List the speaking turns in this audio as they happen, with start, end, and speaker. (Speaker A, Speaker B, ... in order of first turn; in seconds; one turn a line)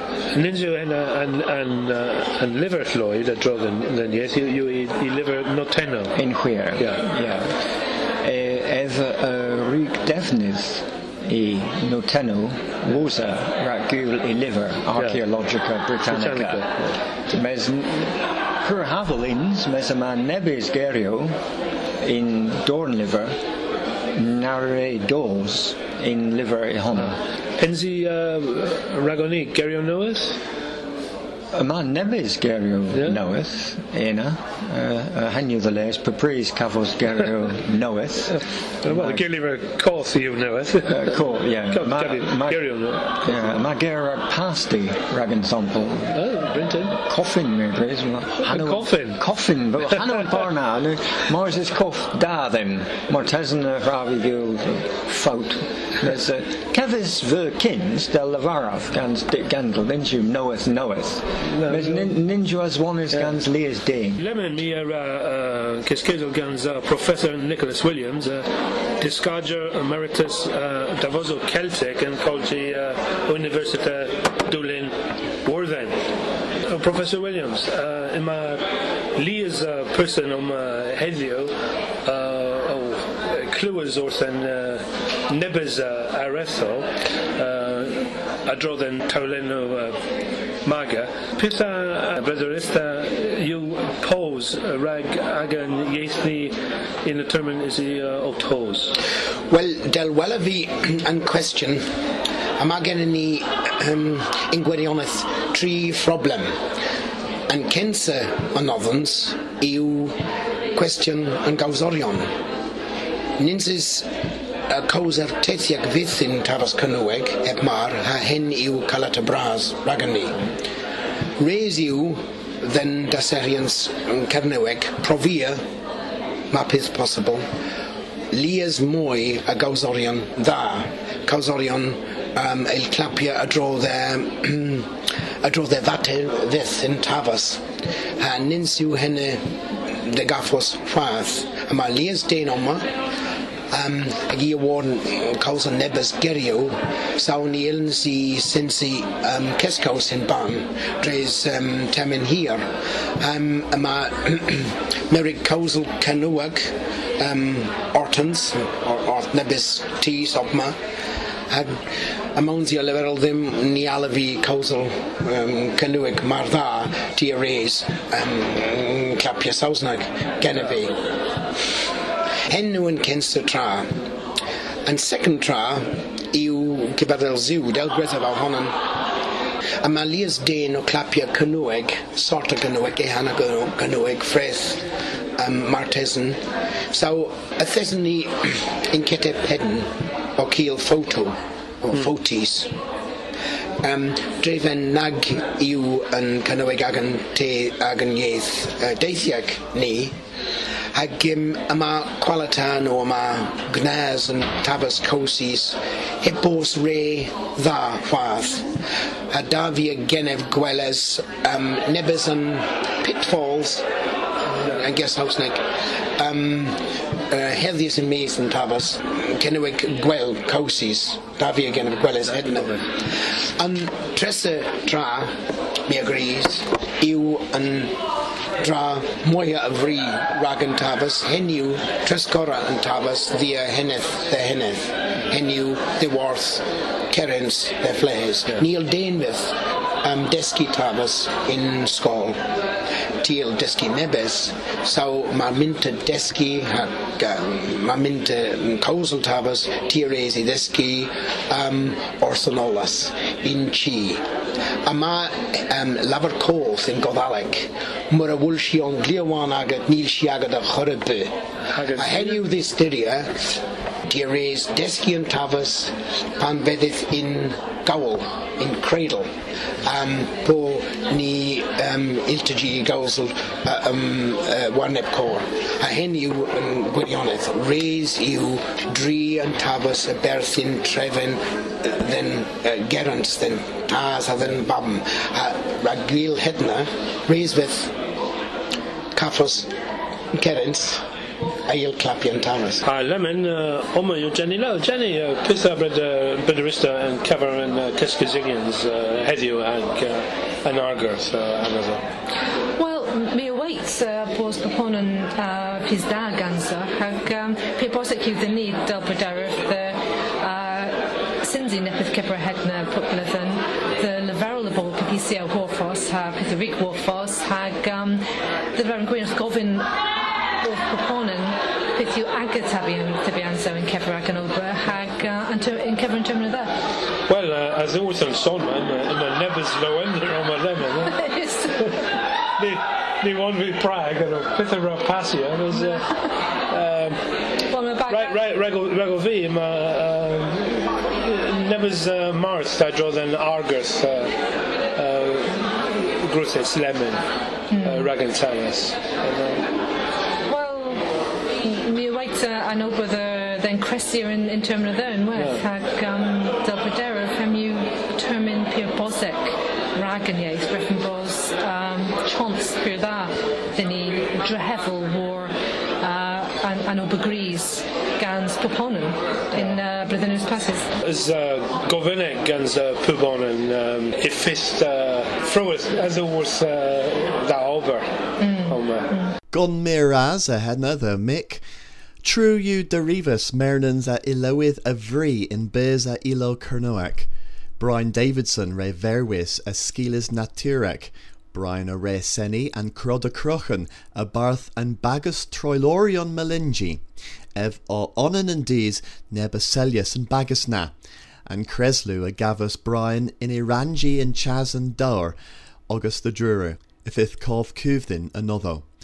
Speaker A: 0.3-6.1
Speaker B: 6.2-7.5
Speaker B: 8.2-16.6
Speaker A: 16.1-16.8
Speaker B: 17.3-21.4
Speaker B: 22.0-23.4
Speaker B: 24.1-27.2
Speaker A: 27.6-30.4
Speaker B: 31.5-38.4
Speaker A: 32.9-33.2
Speaker A: 38.8-41.2
Speaker B: 39.0-39.2
Speaker B: 40.9-42.5
Speaker A: 41.7-43.4
Speaker B: 43.2-46.1
Speaker A: 46.1-47.0
Speaker B: 47.0-64.2
Speaker A: 48.4-49.2
Speaker A: 49.9-50.4
Speaker A: 61.5-62.1
Speaker A: 64.2-68.5
Speaker A: 69.0-74.9
Speaker A: 75.5-76.0
Speaker A: 76.7-78.6
Speaker A: 79.2-81.5
Speaker A: 82.0-86.9
Speaker A: 87.4-90.0
Speaker A: 90.7-99.0
Speaker C: 99.5-101.8
Speaker C: 102.6-106.5
Speaker C: 107.5-110.2
Speaker C: 110.7-112.3
Speaker C: 113.4-114.1
Speaker C: 114.7-120.3
Speaker C: 121.4-125.6
Speaker C: 126.5-127.4
Speaker C: 128.3-134.9
Speaker C: 135.4-137.6
Speaker C: 138.2-139.4
Speaker C: 139.9-142.8
Speaker C: 143.7-152.6
Speaker C: 153.2-160.8
Speaker C: 162.3-171.0
Speaker C: 172.5-173.9
Speaker C: 174.8-178.8
Speaker C: 179.8-184.8
Speaker C: 185.4-186.4
Speaker C: 186.9-192.7
Speaker C: 193.8-200.2
Speaker C: 200.9-208.7
Speaker C: 209.3-213.8
Speaker C: 214.5-215.6
Speaker C: 216.2-216.8
Speaker C: 217.3-222.9
Speaker C: 223.5-225.3
Speaker C: 225.9-227.9
Speaker C: 228.6-242.4
Speaker C: 243.2-254.2
Speaker C: 254.8-261.3
Speaker A: 261.7-262.4
Speaker C: 261.9-263.3
Speaker C: 264.1-269.3
Speaker C: 269.8-287.9
Speaker C: 289.1-289.7
Speaker C: 290.3-291.0
Speaker C: 291.7-292.8
Speaker A: 292.9-302.0
Speaker D: 302.8-318.2
Speaker D: 318.7-320.0
Speaker D: 320.6-326.7
Speaker A: 327.3-331.2
Speaker D: 331.1-332.0
Speaker A: 332.6-336.1
Speaker A: 336.7-337.2
Speaker D: 337.7-338.4
Speaker A: 338.1-344.4
Speaker A: 345.0-347.2
Speaker D: 347.7-348.1
Speaker A: 347.8-349.6
Speaker D: 350.5-351.0
Speaker D: 351.6-370.9
Speaker A: 371.0-378.0
Speaker D: 378.4-379.3
Speaker A: 378.6-379.1
Speaker E: 379.5-381.6
Speaker E: 382.2-397.0
Speaker E: 397.6-401.0
Speaker E: 401.5-405.4
Speaker E: 405.9-408.9